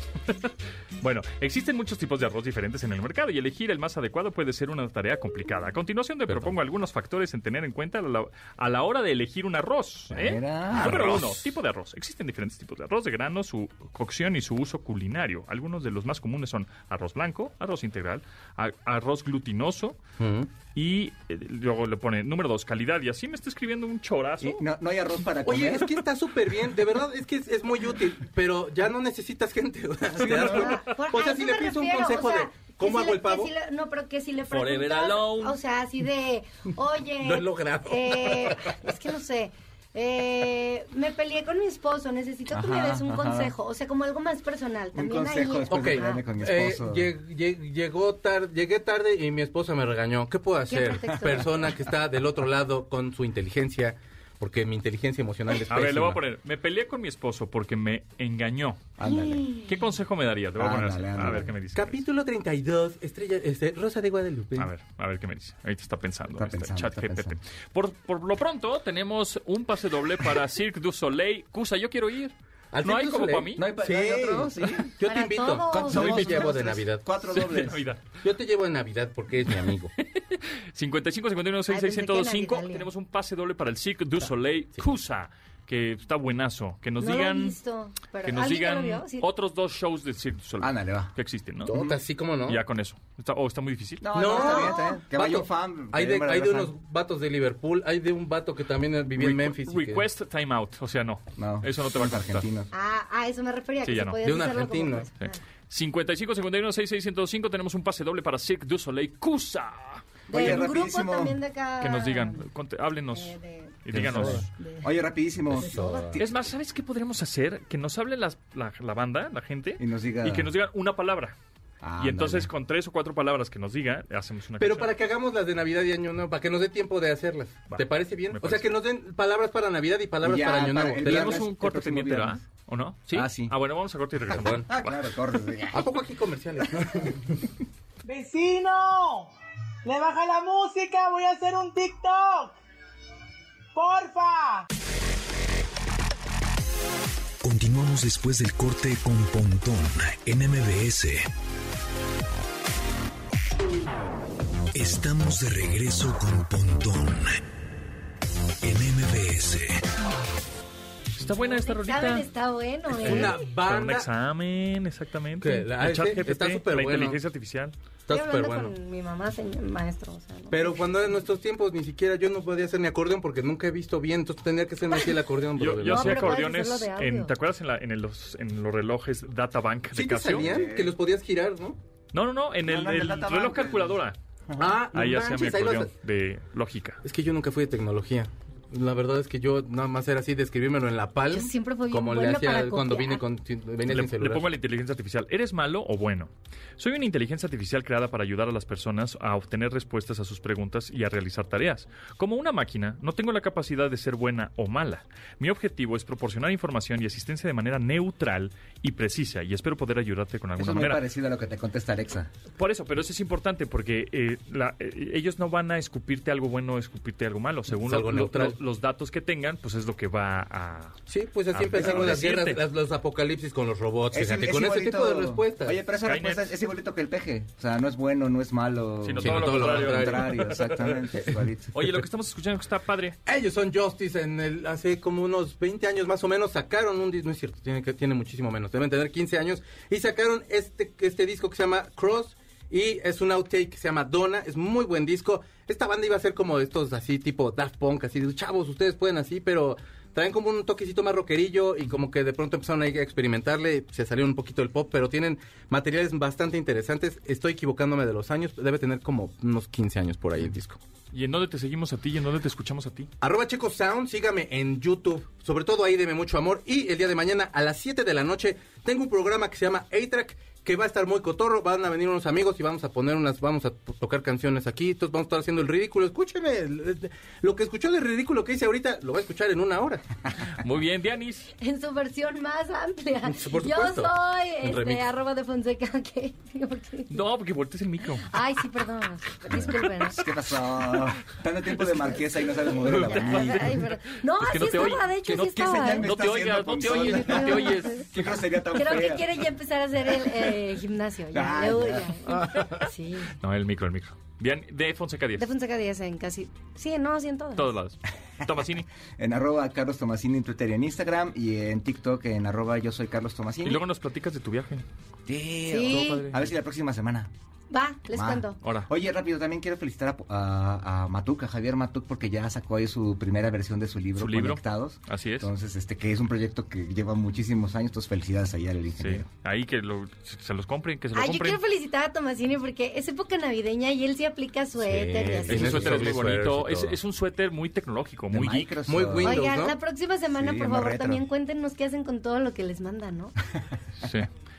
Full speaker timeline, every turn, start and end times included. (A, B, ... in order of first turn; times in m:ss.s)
0:00.3-0:20.0 A
0:06.3-0:06.5 B
0:10.1-0:11.4 C
0:10.8-0:11.2 B
0:20.2-0:20.5 B
0:20.7-0:24.6 A
0:24.4-0:26.0 C
0:25.4-0:33.5 B
0:30.2-0:30.7 A
0:30.2-0:46.2 D
0:30.4-0:30.7 C
0:34.5-0:35.6 A
0:37.2-0:38.7 B
0:42.5-0:43.5 C
0:44.9-0:47.1 C
0:45.7-0:56.2 B
0:50.7-0:51.6 D
0:55.6-0:59.0 A
0:59.0-0:59.7 C
0:59.6-1:02.0 A
1:00.6-1:01.5 C
1:01.7-1:04.7 B
1:04.6-1:12.3 A
1:06.3-1:07.4 C
1:12.7-1:17.0 B
1:12.8-1:13.7 A
1:13.6-1:14.9 C
1:15.0-1:16.3 D
1:15.7-1:17.9 C
1:16.0-1:16.3 A
1:17.3-1:18.1 A
1:18.2-1:19.9 B
1:20.0-1:27.6 A
1:21.7-1:22.9 D
1:27.0-1:29.3 D
1:28.2-1:31.8 A
1:30.6-1:31.1 C
1:31.7-1:32.6 B
1:31.7-1:32.0 C
1:32.4-1:34.1 A
1:34.0-1:36.7 C
1:34.1-1:40.0 B
1:34.2-1:35.0 D
1:39.2-1:42.5 A
1:41.4-1:42.7 C
1:42.7-1:45.4 D
1:43.8-1:44.2 A
1:44.2-1:45.1 B
1:45.3-1:50.7 A
1:50.3-1:52.4 D
1:50.3-1:51.4 C
1:51.8-1:54.5 A
1:53.1-1:53.8 D
1:53.9-1:56.4 C
1:54.0-1:54.4 B
1:54.5-1:54.9 D
1:55.6-1:56.2 B
1:55.6-1:56.2 D
1:56.2-2:01.4 A
1:59.8-2:00.5 C
2:01.8-2:02.5 C
2:02.0-2:04.9 A
2:04.6-2:11.5 B
2:07.7-2:08.7 A
2:10.2-2:12.4 C
2:11.0-2:15.1 A
2:13.1-2:13.6 C
2:14.3-2:14.7 B
2:14.4-2:16.1 C
2:15.7-2:17.4 B
2:18.0-2:19.3 E
2:19.8-2:22.6 E
2:23.8-2:24.7 E
2:27.4-2:31.3 F
2:34.7-2:37.4 F
2:38.6-2:39.8 F
2:41.2-2:42.3 A
2:41.4-2:43.4 D
2:43.0-2:44.1 B
2:43.0-2:47.8 A
2:45.4-2:47.2 B
2:48.1-2:48.8 B
2:48.1-2:50.8 D
2:50.5-2:56.4 B
2:55.6-3:00.5 A
2:55.9-2:57.3 D
3:00.0-3:01.8 B
3:00.3-3:01.0 C
3:02.1-3:04.2 A
3:02.6-3:04.0 C
3:04.5-3:04.8 C
3:04.6-3:05.9 B
3:04.9-3:07.0 A
3:07.0-3:14.5 B
3:11.3-3:13.2 D
3:13.9-3:31.0 A
3:30.6-3:32.3 C
3:32.6-3:41.0 A
3:37.8-3:38.6 B
3:41.1-3:45.8 B
3:41.5-3:42.6 A
3:44.1-3:51.8 C
3:46.0-3:46.5 A
3:49.0-3:51.0 A
3:49.2-3:50.3 B
3:51.7-3:53.2 A
3:53.3-4:20.8 B
4:21.1-4:23.1 A
4:23.2-4:40.0 B
4:40.4-4:41.5 A
4:41.6-4:47.3 D
4:43.3-4:45.1 B
4:47.1-4:48.3 A
4:48.3-4:50.2 D
4:50.0-4:53.8 C
4:51.8-4:58.1 A
4:53.2-4:56.1 D
4:54.6-4:59.4 C
4:57.2-4:58.0 D
4:58.7-5:03.4 D
5:01.3-5:02.3 C
5:03.4-5:05.5 A
5:05.4-5:07.8 D
5:07.6-5:08.9 A
5:09.2-5:13.8 C
5:13.6-5:14.8 A
5:15.3-5:17.3 C
5:15.7-5:16.2 D
5:15.8-5:16.5 A
5:17.7-5:18.6 D
5:18.1-5:29.3 C
5:18.6-5:18.9 A
5:24.2-5:25.5 A
5:29.0-5:31.6 A
5:31.2-5:36.1 D
5:34.8-5:37.0 B
5:35.5-5:38.7 A
5:38.3-5:39.6 C
5:38.9-5:39.8 B
5:39.2-5:43.4 D
5:40.3-5:41.2 C
5:44.0-5:44.3 A